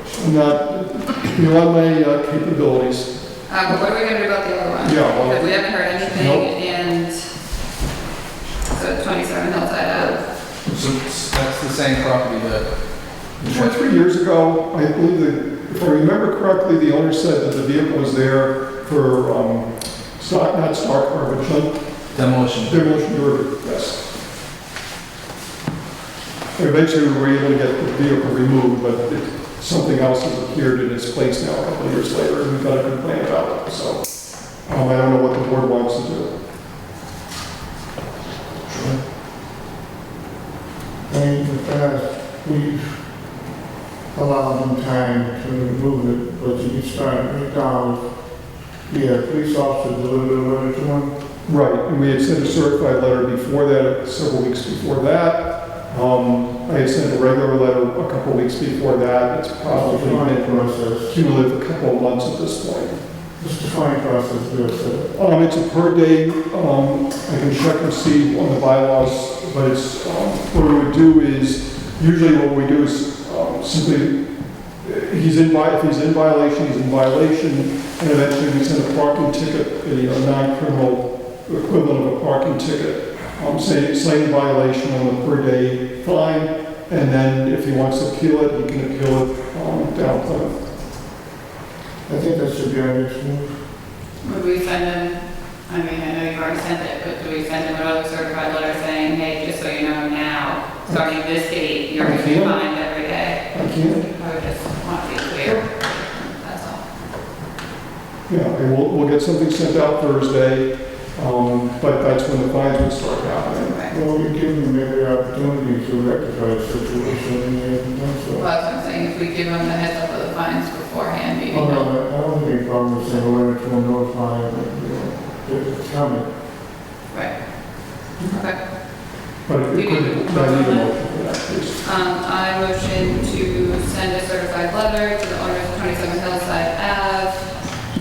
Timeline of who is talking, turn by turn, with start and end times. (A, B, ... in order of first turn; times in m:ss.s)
0:00.2-0:03.1 A
0:03.5-0:07.3 B
0:04.8-0:06.5 A
0:08.7-0:10.3 B
0:10.7-0:12.7 C
0:13.4-0:13.7 C
0:13.4-0:21.8 A
0:22.1-0:22.9 C
0:22.6-0:24.0 A
0:26.6-0:34.0 A
0:34.6-0:36.3 A
0:38.7-0:39.0 C
0:41.1-0:43.0 D
0:44.1-0:48.0 D
0:48.9-0:51.1 D
0:51.5-1:03.0 A
0:59.7-1:01.2 D
1:03.4-1:05.1 D
1:05.2-1:14.2 A
1:14.8-1:30.6 A
1:32.1-1:33.6 D
1:34.2-1:46.8 B
1:40.9-1:41.1 A
1:42.0-1:42.6 A
1:43.5-1:44.0 A
1:48.3-1:53.8 A
1:53.6-1:53.9 B
1:53.9-1:58.5 D
1:58.4-2:01.9 B
2:01.5-2:06.3 D
2:08.2-2:08.6 B
2:09.5-2:11.8 A
2:09.7-2:10.9 B
2:11.8-2:17.5 B